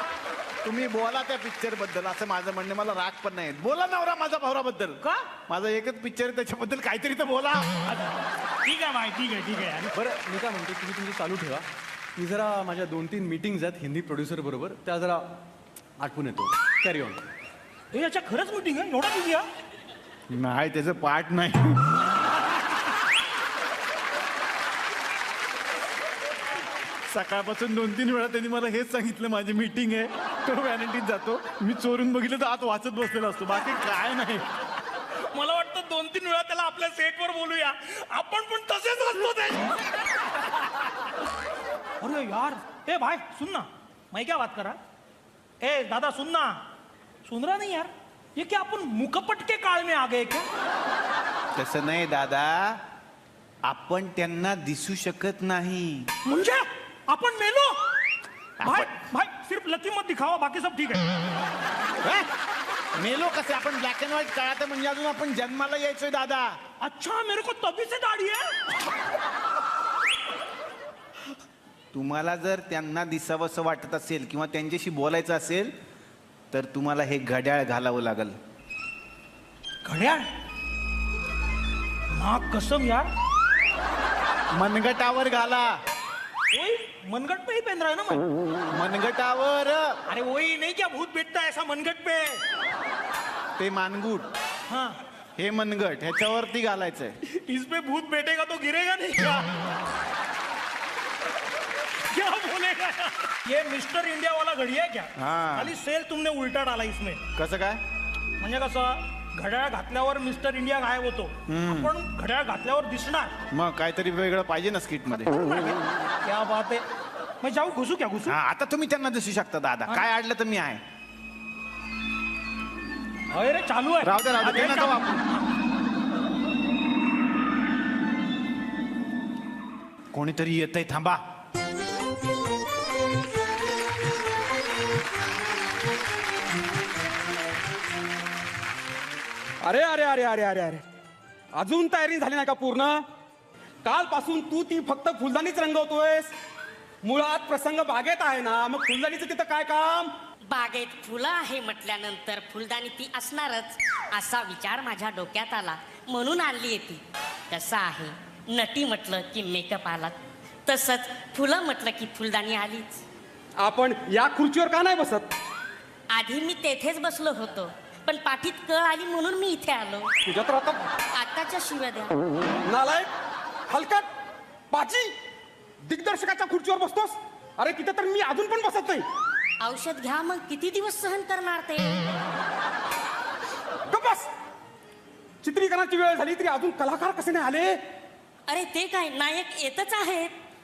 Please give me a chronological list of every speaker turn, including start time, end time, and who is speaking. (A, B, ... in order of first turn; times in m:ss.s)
0:00.6-0:07.7 A
0:05.0-0:05.3 B
0:07.9-0:09.9 B
0:09.9-0:11.7 C
0:12.2-0:15.3 C
0:16.0-0:17.2 C
0:17.9-0:19.5 B
0:20.3-0:22.0 A
0:27.1-0:34.3 A
0:33.9-0:34.4 B
0:35.2-0:40.0 B
0:42.0-0:44.8 B
0:45.6-0:46.6 B
0:47.3-0:50.5 B
0:51.6-0:52.8 A
0:53.6-0:56.1 A
0:56.3-0:57.8 B
0:58.6-0:58.9 A
0:58.6-1:01.1 B
1:03.0-1:06.6 A
1:06.8-1:08.6 B
1:11.9-1:15.7 A
1:16.5-1:18.4 A
1:19.8-1:20.3 B
1:22.1-1:23.1 B
1:24.5-1:25.7 A
1:26.5-1:28.2 B
1:28.7-1:30.0 A
1:30.1-1:32.4 B
1:33.6-1:34.3 A
1:34.7-1:35.0 B
1:35.4-1:37.2 A
1:37.3-1:39.6 B
1:42.1-1:47.2 B
1:45.2-1:45.7 A
1:47.4-1:47.8 A
1:48.4-1:53.3 B
1:51.5-1:51.9 A
1:53.5-1:55.3 A
1:55.3-1:56.8 B
1:57.4-1:58.4 B
1:58.2-2:00.8 A
2:03.3-2:05.5 B
2:04.0-2:05.2 A
2:10.1-2:11.2 A
2:19.6-2:20.8 D
2:21.6-2:23.1 D
2:23.8-2:26.3 D
2:27.0-2:30.1 D
2:30.5-2:40.1 E
2:40.7-2:43.0 E
2:43.6-2:45.3 D
2:46.1-2:50.1 E
2:50.3-2:50.9 D
2:51.1-2:52.2 E
2:52.6-2:53.1 D
2:53.7-2:54.1 D
2:54.7-2:55.2 D
2:55.8-2:59.1 D
2:59.6-3:02.0 E
3:03.9-3:04.3 D
3:05.4-3:07.9 D
3:08.5-3:10.3 E